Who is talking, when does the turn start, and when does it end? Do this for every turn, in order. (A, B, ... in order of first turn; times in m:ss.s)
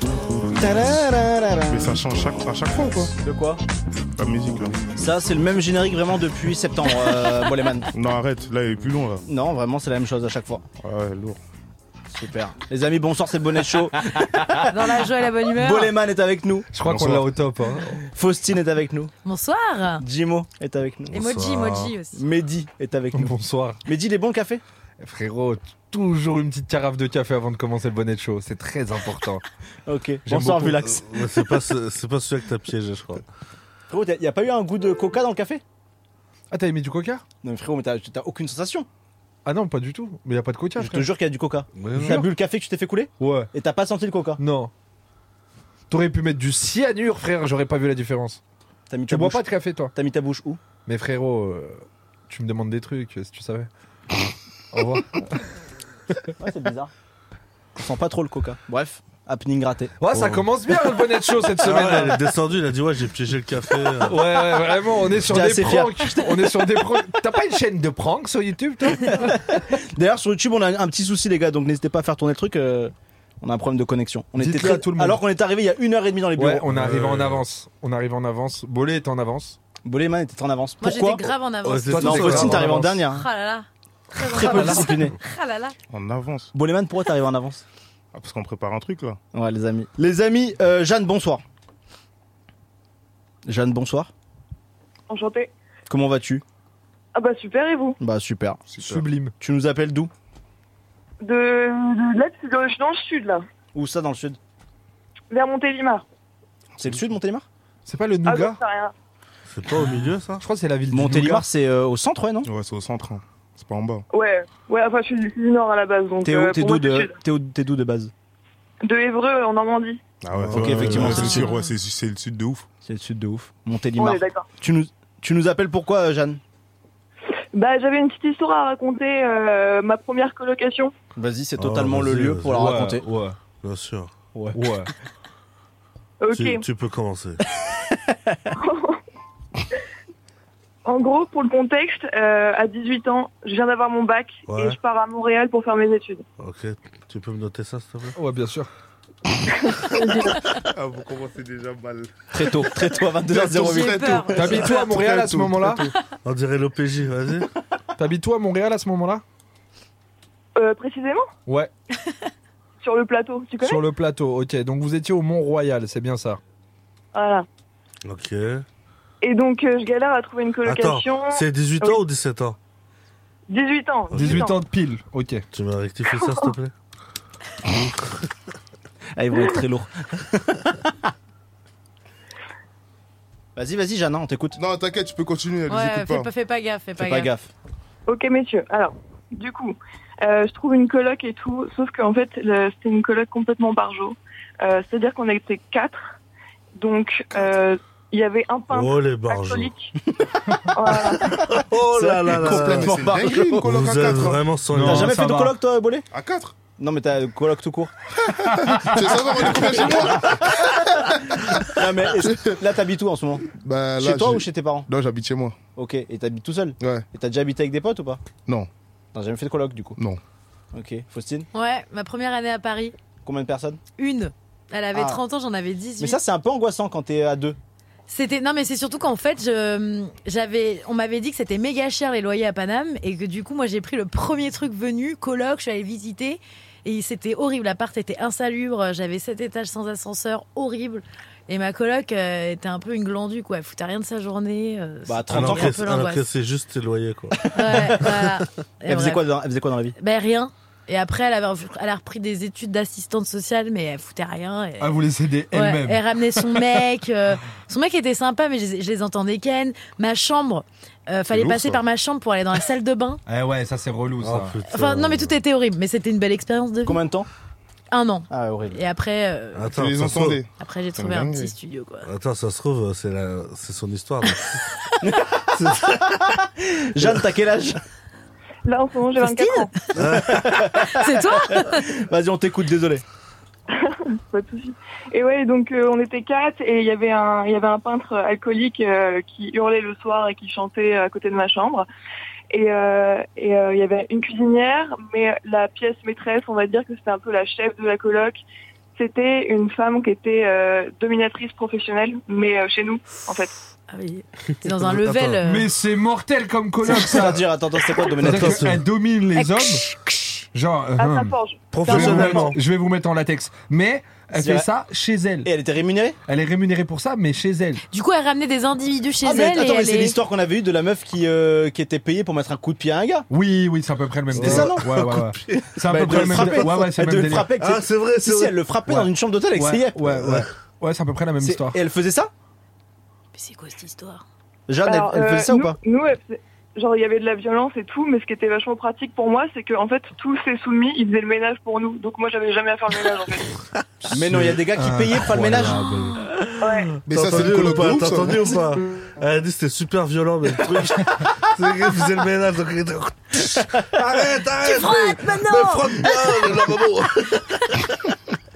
0:00.5-0:02.0 A
0:01.7-0:03.1 B
0:03.1-0:03.6 A
0:04.2-0:04.8 B
0:05.0-0:07.9 A
0:07.9-0:09.2 B
0:09.3-0:10.6 A
0:10.8-0:11.4 B
0:12.1-0:14.6 A
0:14.7-0:15.9 C
0:15.6-0:16.7 A
0:16.7-0:18.0 D
0:16.8-0:17.3 E
0:18.1-0:19.1 A
0:19.2-0:20.0 C
0:20.0-0:21.2 A
0:21.1-0:21.9 E
0:21.1-0:22.2 C
0:22.1-0:23.3 A
0:23.1-0:23.8 D
0:23.8-0:24.6 A
0:25.0-0:29.4 D
0:29.9-0:31.1 A
0:30.3-0:33.2 E
0:33.9-0:35.6 A
0:36.5-0:37.2 D
0:37.4-0:38.9 A
0:39.4-0:41.1 D
0:40.8-0:44.4 A
0:41.8-0:42.2 E
0:42.0-0:42.3 D
0:43.2-0:43.5 D
0:44.4-0:44.7 D
0:45.9-0:48.4 D
0:48.9-0:50.6 A
0:49.1-0:49.9 D
0:50.8-0:53.7 D
0:54.7-0:55.1 D
0:56.4-0:56.9 A
0:57.8-0:59.9 A
1:00.0-1:02.2 D
1:00.1-1:00.5 E
1:01.6-1:04.4 E
1:04.0-1:09.3 D
1:05.2-1:06.1 A
1:09.1-1:16.7 A
1:14.4-1:15.2 D
1:16.4-1:19.6 D
1:16.7-1:17.4 E
1:19.8-1:21.3 A
1:20.8-1:25.8 C
1:21.6-1:22.8 E
1:21.9-1:23.3 A
1:22.0-1:22.9 D
1:24.2-1:25.1 A
1:24.7-1:25.0 D
1:25.9-1:26.5 B
1:26.5-1:27.6 A
1:28.1-1:29.2 B
1:29.3-1:31.4 A
1:33.5-1:34.1 A
1:35.1-1:35.5 F
1:35.9-1:36.4 A
1:37.2-1:38.0 F
1:38.0-1:38.8 A
1:38.7-1:39.0 B
1:38.8-1:39.3 D
1:39.4-1:40.1 A
1:41.2-1:43.4 F
1:43.7-1:44.4 A
1:45.3-1:46.0 F
1:46.8-1:47.5 A
1:47.9-1:48.6 D
1:48.2-1:48.9 F
1:49.5-1:50.4 E
1:50.4-1:51.4 D
1:50.9-1:52.5 A
1:52.4-1:54.0 B
1:54.1-1:57.2 F
1:56.2-1:58.1 A
1:58.8-2:00.0 F
2:00.2-2:02.7 B
2:00.3-2:01.4 E
2:00.5-2:01.5 A
2:01.1-2:01.7 C
2:02.8-2:06.4 A
2:04.0-2:04.5 F
2:07.5-2:10.9 F
2:11.2-2:13.0 A
2:11.6-2:12.8 E
2:12.5-2:13.4 D
2:13.6-2:14.1 E
2:14.3-2:14.6 A
2:14.5-2:14.9 D
2:16.2-2:16.6 F
2:16.3-2:17.4 E
2:17.6-2:18.4 A
2:18.6-2:19.0 F
2:20.9-2:26.3 F
2:24.5-2:24.8 E
2:26.4-2:28.2 E
2:28.2-2:28.7 D
2:29.6-2:30.5 F
2:30.7-2:32.1 B
2:32.3-2:34.7 A
2:33.3-2:35.9 B
2:33.6-2:34.9 C
2:34.3-2:35.9 D
2:36.2-2:37.5 E
2:38.0-2:39.2 D
2:40.6-2:41.3 F
2:42.8-2:43.8 F
2:43.6-2:46.4 D
2:47.1-2:47.5 F
2:48.1-2:48.6 E
2:49.2-2:52.0 F
2:50.6-2:52.6 E
2:53.5-2:54.6 F
2:54.1-2:54.5 E
2:54.1-2:55.5 D
2:55.5-2:56.7 E
2:56.1-2:56.5 F
2:59.2-3:00.8 A
3:03.6-3:04.6 A
3:04.6-3:06.3 B
3:05.7-3:07.3 C
3:07.0-3:07.5 A
3:08.1-3:16.2 F
3:16.8-3:19.9 F
3:18.7-3:19.7 E
3:20.7-3:21.4 F
3:21.3-3:23.1 E
3:21.9-3:23.7 A
3:22.3-3:24.4 B
3:23.6-3:25.2 E
3:24.7-3:25.6 D
3:24.8-3:26.0 A
3:26.1-3:26.6 B
3:26.8-3:27.9 A
3:28.5-3:29.0 D
3:28.8-3:31.7 B
3:29.4-3:30.8 A
3:31.7-3:34.9 A
3:32.2-3:32.6 B
3:33.5-3:35.6 B
3:35.8-3:38.2 A
3:39.1-3:40.0 A
3:40.7-3:41.5 A
3:41.5-3:43.0 C
3:43.2-3:43.8 A
3:44.0-3:46.2 C
3:44.9-3:45.2 A
3:46.0-3:47.6 A
3:48.1-4:06.2 C
4:05.1-4:05.8 A
4:05.3-4:08.3 E
4:07.5-4:08.2 A
4:07.5-4:09.2 C
4:08.9-4:10.0 A
4:10.0-4:15.0 C
4:14.8-4:16.6 D
4:15.5-4:23.2 C
4:21.3-4:21.7 B
4:23.3-4:24.6 D
4:24.2-4:25.4 E
4:24.7-4:27.0 C
4:26.8-4:27.3 A
4:27.9-4:29.7 C
4:28.3-4:28.8 A
4:29.6-4:30.4 E
4:29.7-4:31.5 B
4:30.6-4:32.1 C
4:32.0-4:34.6 E
4:35.0-4:37.8 A
4:35.5-4:36.4 E
4:38.7-4:39.8 F
4:39.2-4:41.9 C
4:39.9-4:40.6 E
4:40.1-4:43.0 A
4:43.7-4:51.9 F
4:52.5-4:58.4 F
4:59.0-5:03.5 F
5:03.9-5:05.7 C
5:04.6-5:05.4 E
5:05.4-5:07.4 D
5:06.9-5:08.7 A
5:08.2-5:09.8 D
5:08.2-5:08.9 E
5:09.4-5:10.4 C
5:10.5-5:15.5 D
5:11.0-5:12.5 F
5:11.7-5:12.6 E
5:14.4-5:14.7 A
5:15.4-5:16.2 A
5:16.3-5:17.8 D
5:17.9-5:20.2 C
5:19.2-5:23.3 A
5:23.3-5:27.5 D
5:24.3-5:28.6 E
5:24.3-5:24.9 A
5:25.9-5:30.4 A
5:28.9-5:31.8 D
5:31.4-5:32.3 A
5:33.3-5:34.2 C
5:34.7-5:35.8 A
5:34.8-5:43.5 F
5:44.1-5:46.3 D
5:44.1-5:45.9 A
5:46.6-5:46.9 F
5:46.6-5:57.8 E
5:47.0-5:48.5 B
5:54.6-5:56.5 C